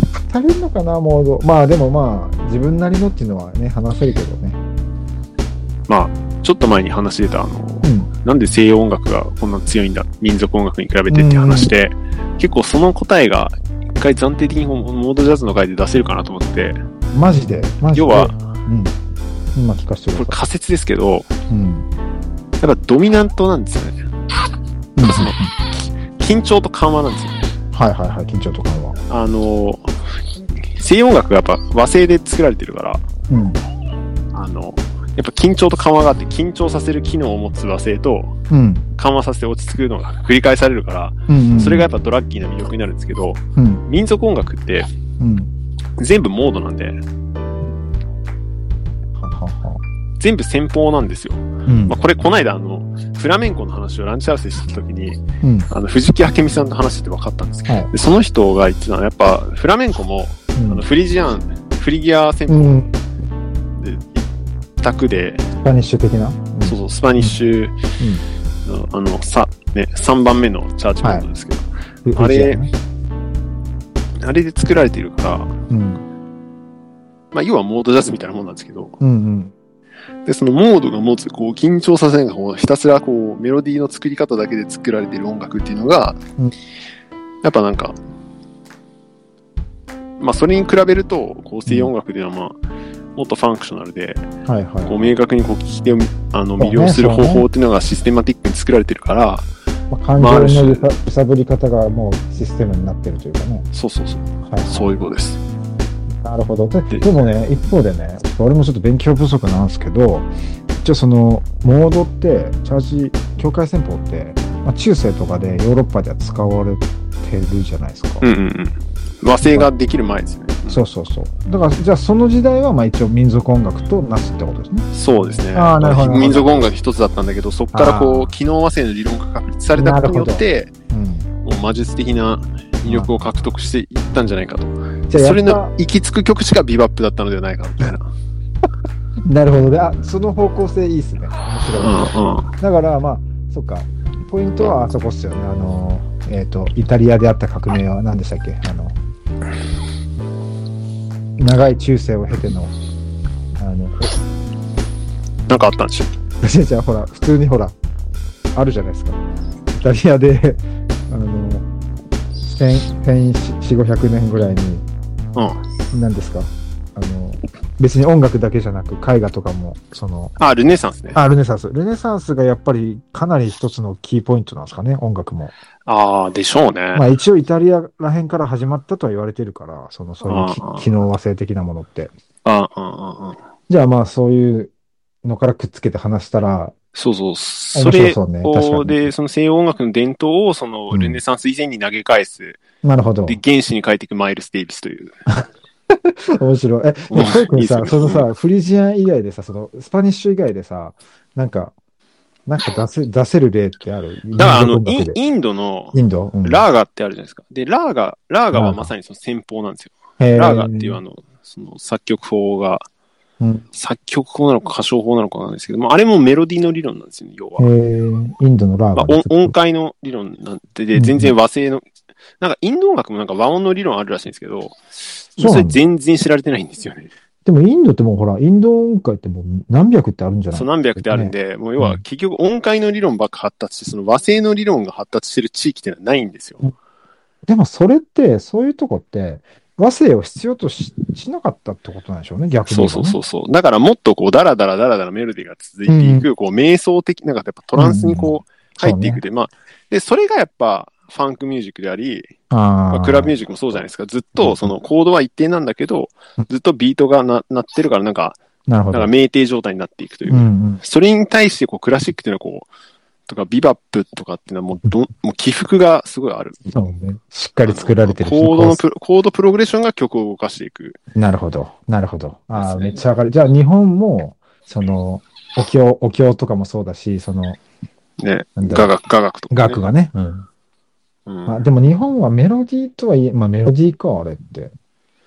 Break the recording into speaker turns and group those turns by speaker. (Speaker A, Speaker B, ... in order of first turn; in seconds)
Speaker A: 0.3-4.6, 7.8-8.1, 11.1-11.7, 17.1-19.0, 19.6-20.4, 21.5-21.9, 25.0-25.5, 27.7-29.0, 33.3-33.6, 38.5-38.9, 41.3-41.9, 43.6-43.8, 45.2-45.5, 49.2-49.8, 51.7-52.0, 55.4-55.7, 57.7-57.9, 60.5-60.9, 62.5-62.9, 65.6-67.4, 68.0-68.3, 71.0-71.3, 72.0-72.7, 75.7-76.0, 79.0-79.5, 91.7-91.9, 94.5-95.1, 96.6-97.5, 99.9-103.7, 104.5-104.9, 106.2-110.3, 110.8-118.3, 120.7-124.9, 125.5-126.7, 127.7-128.4, 129.7-131.3, 132.9-133.1, 135.1-135.7, 139.3-149.0, 151.4-152.8, 153.6-154.1, 156.4-157.8, 158.6-161.7, 162.5-164.9, 165.9-170.4, 171.1-175.5, 176.9-182.1, 183.7-184.7, 185.2-186.7, 187.8-189.1, 190.9-191.2, 192.8-193.4, 195.9-201.7, 202.5-205.2, 205.9-206.7, 208.5-208.9, 210.2-211.0, 217.6-219.5, 220.9-221.3, 225.4-225.8, 227.4-232.0, 237.5-243.2, 245.9-246.3, 247.8-249.2, 252.5-253.4, 254.4-254.7, 258.7-259.1, 260.3-260.8, 266.7-268.8, 271.1-277.6, 278.6-278.9, 279.5-280.5, 281.5-284.7
Speaker B: 5.9-16.8, 17.9-18.4, 20.1-21.3, 22.6-24.0, 25.0-25.4, 26.2-27.4, 29.1-29.9, 30.6-33.0, 34.3-38.3, 39.0-44.9, 46.0-47.0, 50.2-62.9, 63.8-64.3, 64.8-65.5, 66.6-67.8, 68.7-72.6, 74.2-75.5, 77.3-79.0, 80.2-86.2, 87.4-88.0, 90.2-92.6, 93.2-94.3, 94.9-99.5, 100.2-100.9, 103.7-105.4, 118.2-120.8, 124.9-130.7, 131.4-138.1, 141.8-142.5, 155.5-156.1, 165.3-165.6, 170.4-171.2, 175.9-177.1, 180.2-180.9, 182.4-183.4, 186.9-192.6, 193.3-195.2, 197.1-198.3, 204.4-212.8, 213.7-217.7, 218.9-221.8, 222.4-224.8, 225.3-227.1, 230.5-236.7, 242.7-252.3, 252.9-258.4, 258.9-262.7, 263.3-266.6, 267.7-271.0, 272.5-273.0, 278.2-279.8, 281.3-281.6